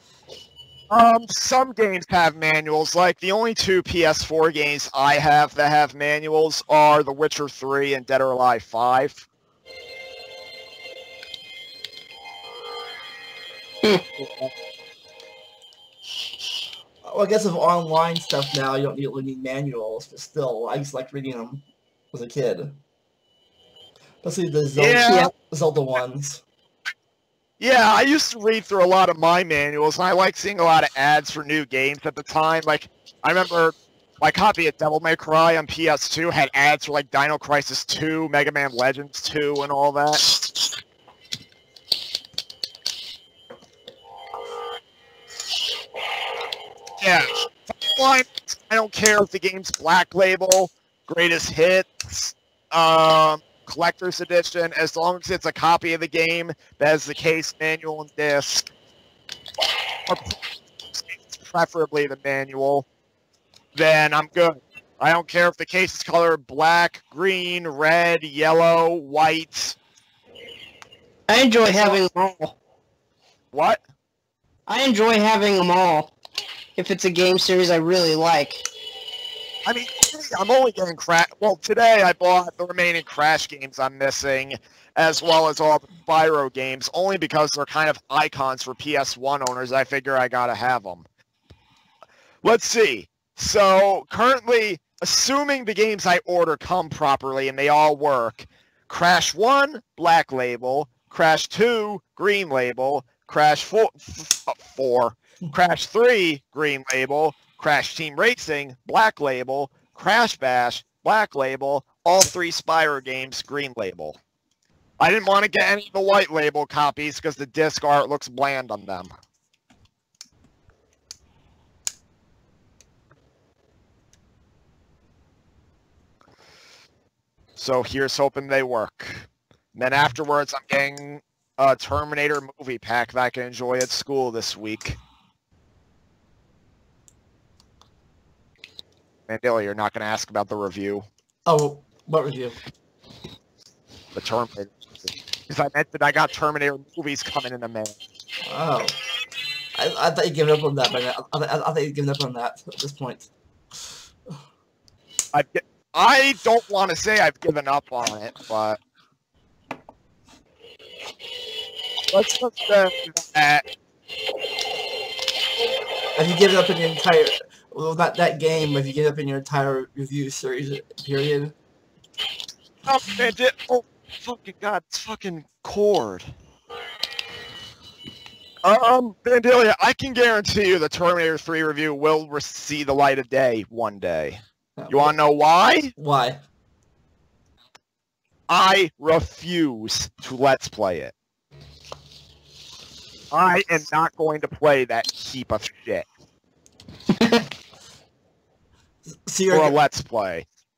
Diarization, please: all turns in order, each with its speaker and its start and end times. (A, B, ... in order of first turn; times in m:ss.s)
0:00.9-0:09.2 A
0:14.2-0:14.5 A
0:17.0-0:22.8 B
0:24.2-0:26.4 B
0:24.8-0:25.3 A
0:27.6-0:40.2 A
0:47.0-0:58.7 A
1:00.1-1:00.4 A
1:00.9-1:02.8 A
1:03.8-1:09.8 A
1:11.3-1:12.6 C
1:11.6-1:12.0 A
1:13.5-1:13.8 A
1:14.7-1:16.1 C
1:16.8-1:18.6 C
1:19.6-1:31.0 A
1:32.4-1:54.2 A
1:55.0-1:59.1 A
2:07.6-2:15.0 A
2:19.3-2:21.0 A
2:21.5-2:22.6 B
2:24.1-2:28.0 A
2:28.5-2:29.0 B
2:29.8-2:33.3 B
2:35.3-2:38.8 A
2:42.1-2:43.6 A
2:46.2-2:51.6 B
2:52.9-2:56.3 A
2:58.6-3:05.9 A
3:04.8-3:05.2 B
3:06.0-3:06.4 B
3:08.5-3:11.1 A
3:13.3-3:16.1 A
3:17.2-3:17.4 C
3:19.3-3:19.8 B
3:19.5-3:20.5 A